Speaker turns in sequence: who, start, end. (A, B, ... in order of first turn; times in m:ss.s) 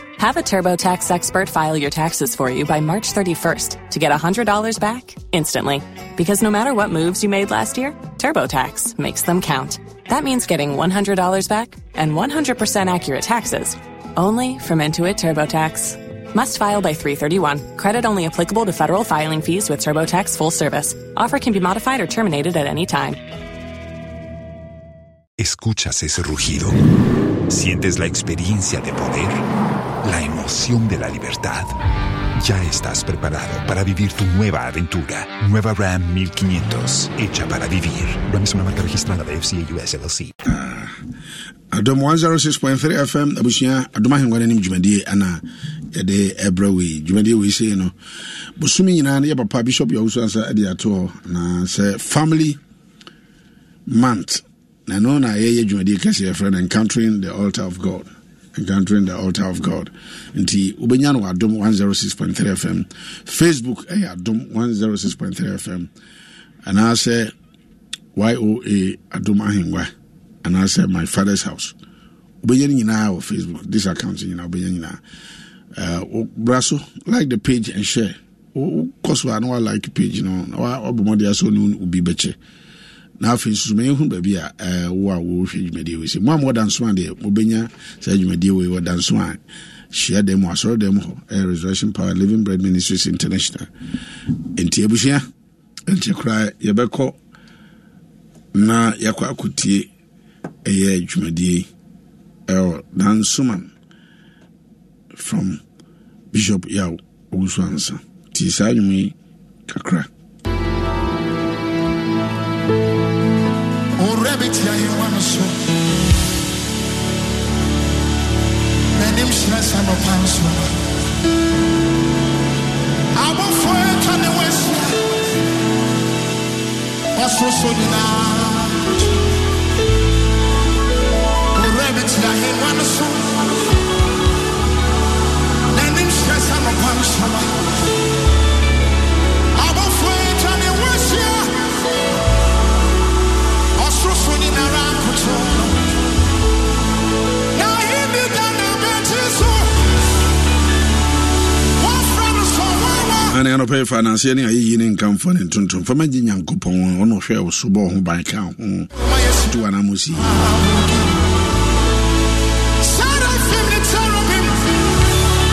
0:00.2-0:23.2 A
0:25.4-0:26.8 B
0:27.5-0:29.4 B
0:30.0-0:31.7 B
0:32.4-0:40.3 B
0:40.4-0:40.9 C
0:41.7-0:47.9 C
0:48.6-0:52.6 C
0:53.9-1:05.9 C
1:06.6-1:07.3 C
1:08.1-1:09.9 C
1:10.4-1:11.7 C
1:12.4-1:15.0 C
1:15.7-1:22.4 C
1:23.2-1:29.4 C
1:29.9-1:33.7 C
1:34.5-1:35.2 C
1:35.9-1:37.2 C
1:38.5-1:39.9 C
1:40.6-1:41.7 C
1:42.5-1:43.7 C
1:45.1-1:45.6 C
1:46.3-1:49.1 C
1:49.7-1:50.1 C
1:54.0-1:55.6 D
1:58.9-2:00.7 D
2:03.1-2:05.0 D
2:07.1-2:09.1 D
2:11.5-2:13.4 D
2:15.7-2:17.6 D
2:19.6-2:21.7 D
2:23.8-2:25.8 D
2:27.5-2:29.9 D
2:31.8-2:33.4 D
2:33.3-2:38.9 C
2:39.0-2:39.5 D
2:39.5-2:40.4 C
2:40.3-2:41.1 D
2:42.8-2:44.8 D